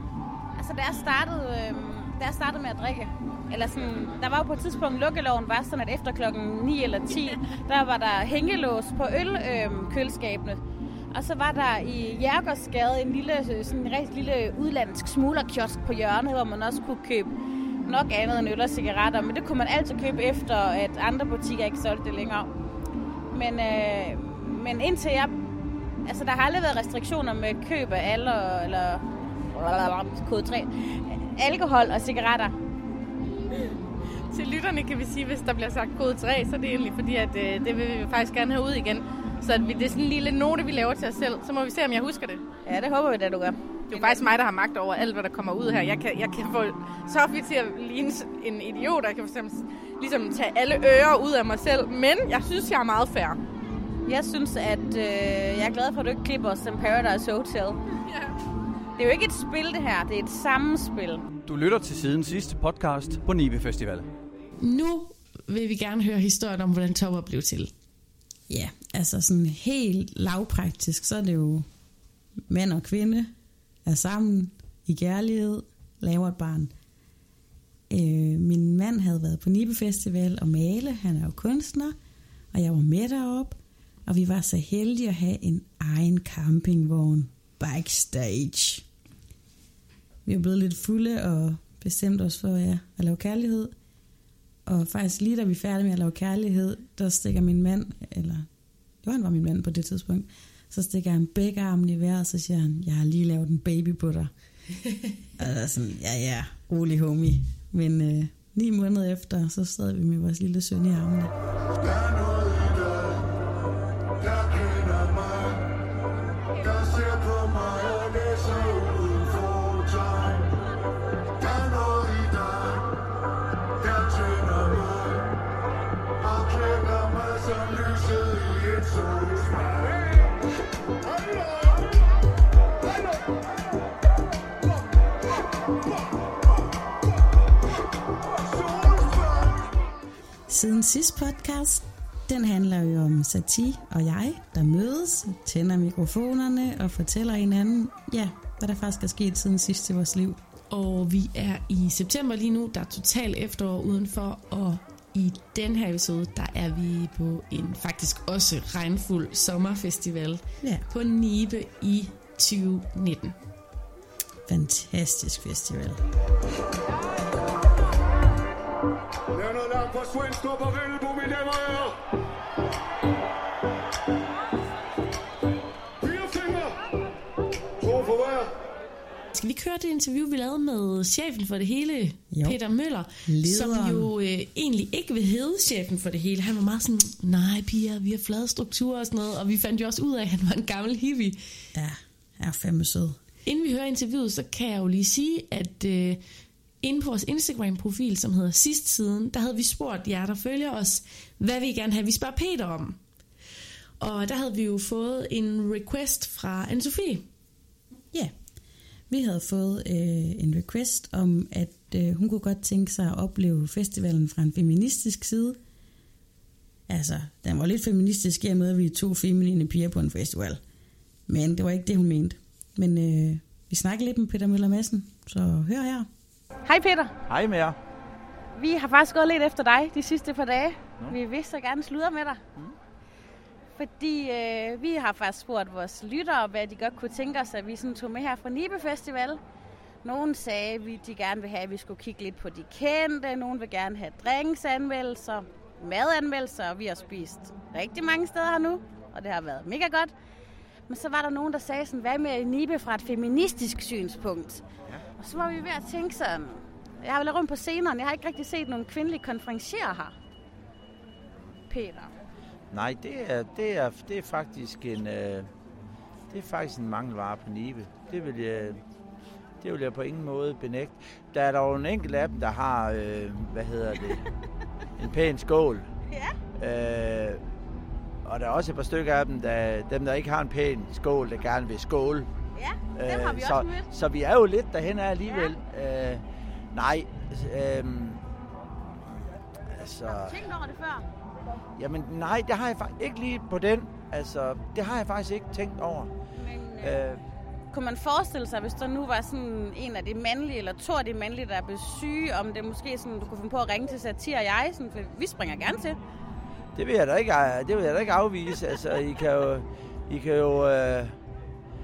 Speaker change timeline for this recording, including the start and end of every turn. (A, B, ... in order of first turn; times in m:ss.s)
0:00.6-0:17.3 A
0:17.9-0:22.5 A
0:23.3-0:25.3 A
0:26.0-0:32.5 A
0:34.3-0:42.4 B
0:42.6-0:44.2 A
0:43.9-0:53.4 B
0:54.0-0:57.8 A
0:58.1-0:58.3 B
0:59.0-1:01.2 A
1:01.4-1:04.1 C
1:04.6-1:07.7 D
1:08.5-1:11.7 E
1:12.5-1:13.3 E
1:13.8-1:16.7 E
1:17.9-1:22.0 E
1:22.5-1:28.8 E
1:30.2-1:33.7 E
1:34.7-1:38.5 E
1:39.0-1:44.3 E
1:45.4-1:51.3 E
1:51.8-1:53.3 F
1:54.2-1:55.6 F
1:56.6-2:00.6 F
2:01.4-2:02.9 F
2:03.8-2:05.3 F
2:06.2-2:10.0 F
2:18.8-2:19.2 F
2:20.5-2:30.4 E
2:30.7-2:43.4 D
2:44.5-2:46.0 E
2:49.3-2:51.9 F
2:56.0-2:56.8 F
2:57.8-2:58.5 F
2:59.3-3:11.4 D
3:02.3-3:02.6 E
3:03.2-3:04.1 E
3:11.7-3:13.2 E
3:13.4-3:16.2 D
3:16.8-3:23.0 D
3:24.0-3:27.2 D
3:29.1-3:35.6 E
3:36.9-3:40.6 E
3:41.3-3:46.1 E
3:46.6-3:47.1 A
3:47.3-3:47.8 G
3:48.5-3:52.4 A
3:53.8-3:59.4 A
4:00.0-4:10.1 A
4:10.9-4:14.6 A
4:15.2-4:20.1 A
4:21.7-4:22.1 A
4:22.7-4:25.5 G
4:26.3-4:28.8 G
4:29.6-4:34.2 G
4:35.0-4:35.8 G
4:36.1-4:36.4 A
4:36.6-4:37.4 G
4:38.2-4:42.3 G
4:42.5-4:43.9 A
4:42.9-4:46.2 G
4:46.7-4:48.2 G
4:49.1-4:50.4 G
4:50.1-4:51.0 A
4:51.8-4:56.1 G
4:56.4-4:57.0 A
4:56.8-4:57.2 G
4:57.7-5:06.0 A
5:06.8-5:11.1 G